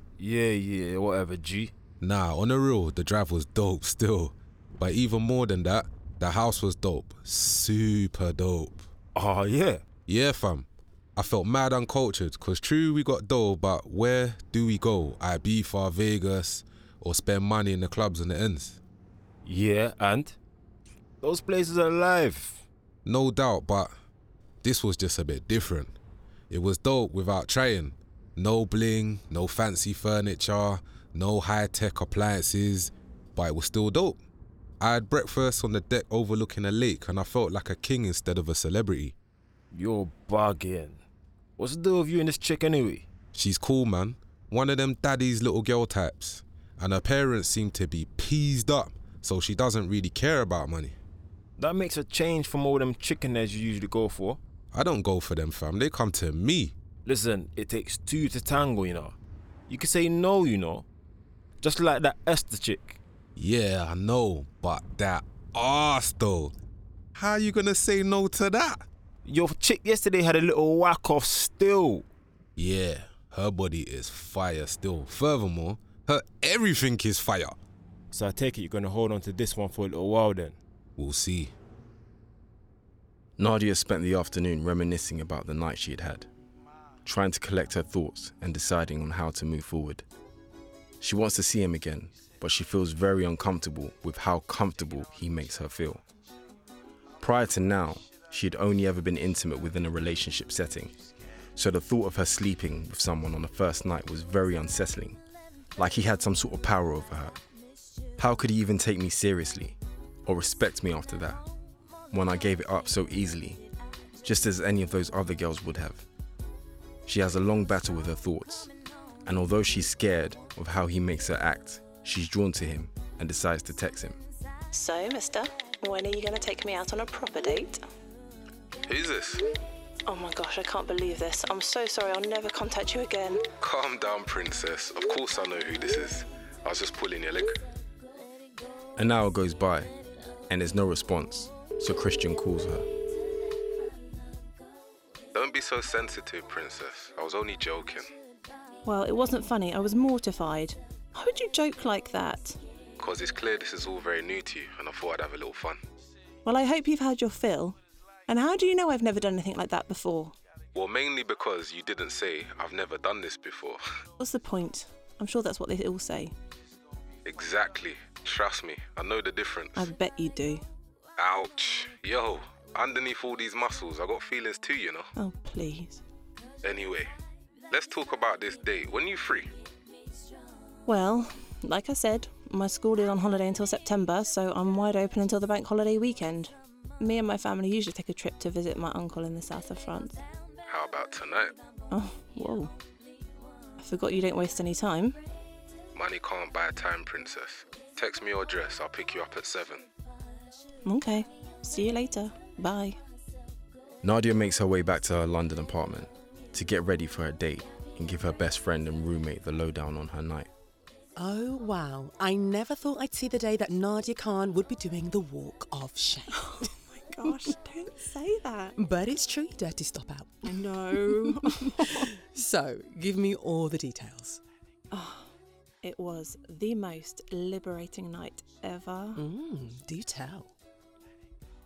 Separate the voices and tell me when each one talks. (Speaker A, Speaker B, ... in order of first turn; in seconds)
Speaker A: 0.2-1.7, 9.1-9.8, 19.4-20.4, 21.2-22.6, 39.7-41.0, 41.6-43.1, 51.6-54.4, 57.0-59.1, 59.7-60.9, 61.6-63.0, 69.2-72.0, 78.1-80.6
Speaker B: 2.0-8.9, 10.1-18.8, 23.0-23.9, 24.6-25.9, 26.5-34.2, 34.8-39.1, 43.3-50.9, 54.7-56.7, 63.4-66.5, 67.1-68.8, 72.5-77.6, 81.0-81.5, 128.8-129.4, 133.6-137.5, 145.3-148.1, 153.0-155.8, 160.7-163.8, 167.2-169.9, 171.2-175.1, 176.6-177.1, 177.7-179.5, 190.7-191.6, 195.9-199.8
Speaker C: 83.4-86.3, 87.0-90.0, 91.0-96.0, 97.2-100.9, 101.5-105.2, 105.8-107.3, 108.2-111.4, 112.1-113.6, 114.2-116.0, 117.1-118.7, 119.2-124.2, 139.0-139.9, 140.5-142.9, 204.0-210.5
Speaker D: 124.7-127.8, 130.1-133.4, 148.8-152.6, 156.4-160.3, 164.2-166.3, 169.8-170.6, 175.2-176.0, 180.9-190.2, 191.9-192.7, 193.8-195.2, 200.8-203.0, 216.5-218.7, 220.4-222.1, 224.9-225.3, 225.8-229.2
Speaker E: 211.2-216.7, 217.3-217.5, 218.8-224.4, 229.2-230.5